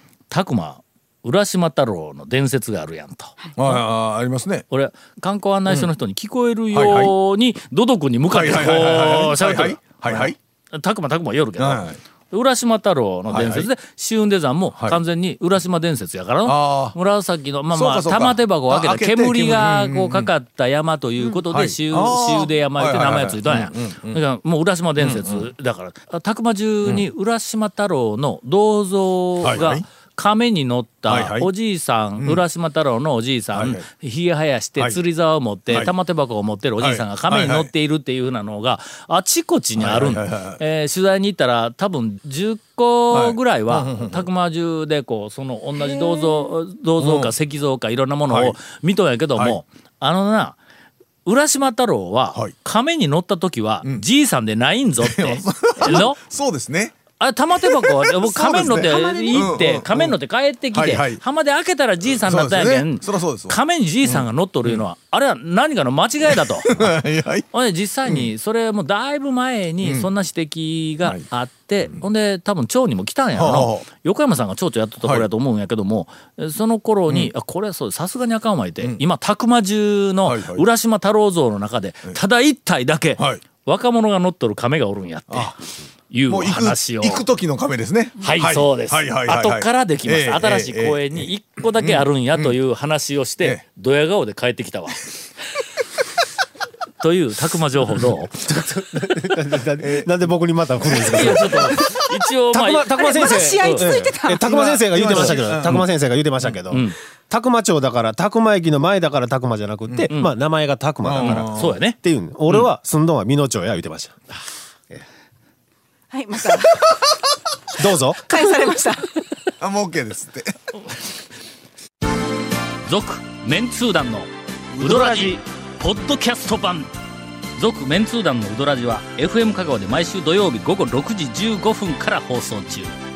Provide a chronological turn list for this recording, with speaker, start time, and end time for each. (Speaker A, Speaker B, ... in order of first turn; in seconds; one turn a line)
Speaker A: 0.3-3.8
Speaker B: 3.6-4.7
Speaker A: 4.7-50.6
Speaker B: 6.7-7.1
Speaker B: 8.3-10.3
Speaker B: 11.6-12.0
Speaker B: 13.3-13.7
Speaker B: 16.4-17.0
Speaker B: 17.7-20.3
Speaker B: 21.5-24.2
Speaker B: 25.0-25.5
Speaker B: 29.4-29.8
Speaker B: 31.1-31.5
Speaker B: 33.5-33.8
Speaker B: 36.8-37.7
Speaker B: 39.8-40.6
Speaker B: 43.1-44.3
Speaker B: 47.0-47.3
Speaker B: 48.3-48.6
Speaker A: 51.2-56.2
Speaker B: 55.0-57.0
Speaker A: 57.2-66.9
Speaker B: 57.6-60.2
Speaker C: 58.5-59.6
Speaker B: 60.7-61.2
Speaker B: 62.1-64.8
Speaker B: 66.3-67.5
Speaker A: 67.5-87.2
Speaker B: 69.8-70.1
Speaker B: 73.4-73.9
Speaker B: 80.2-80.7
Speaker B: 83.2-83.4
Speaker B: 85.3-85.6
Speaker B: 86.3-91.3
Speaker A: 88.2-95.0
Speaker B: 91.8-92.6
Speaker A: 97.0-98.4
Speaker D: 98.3-114.2
Speaker B: 99.8-100.2
Speaker B: 100.8-101.6
Speaker A: 101.0-103.9
Speaker C: 103.0-105.4
Speaker B: 104.5-105.9
Speaker A: 106.7-107.0
Speaker A: 110.1-110.3
Speaker B: 111.0-111.8
Speaker A: 111.2-112.0
Speaker C: 116.1-116.9
Speaker D: 117.8-118.3
Speaker C: 118.3-119.1
Speaker B: 119.6-120.5
Speaker A: 122.9-126.9
Speaker B: 124.8-125.1
Speaker D: 124.8-125.3
Speaker A: 127.6-132.9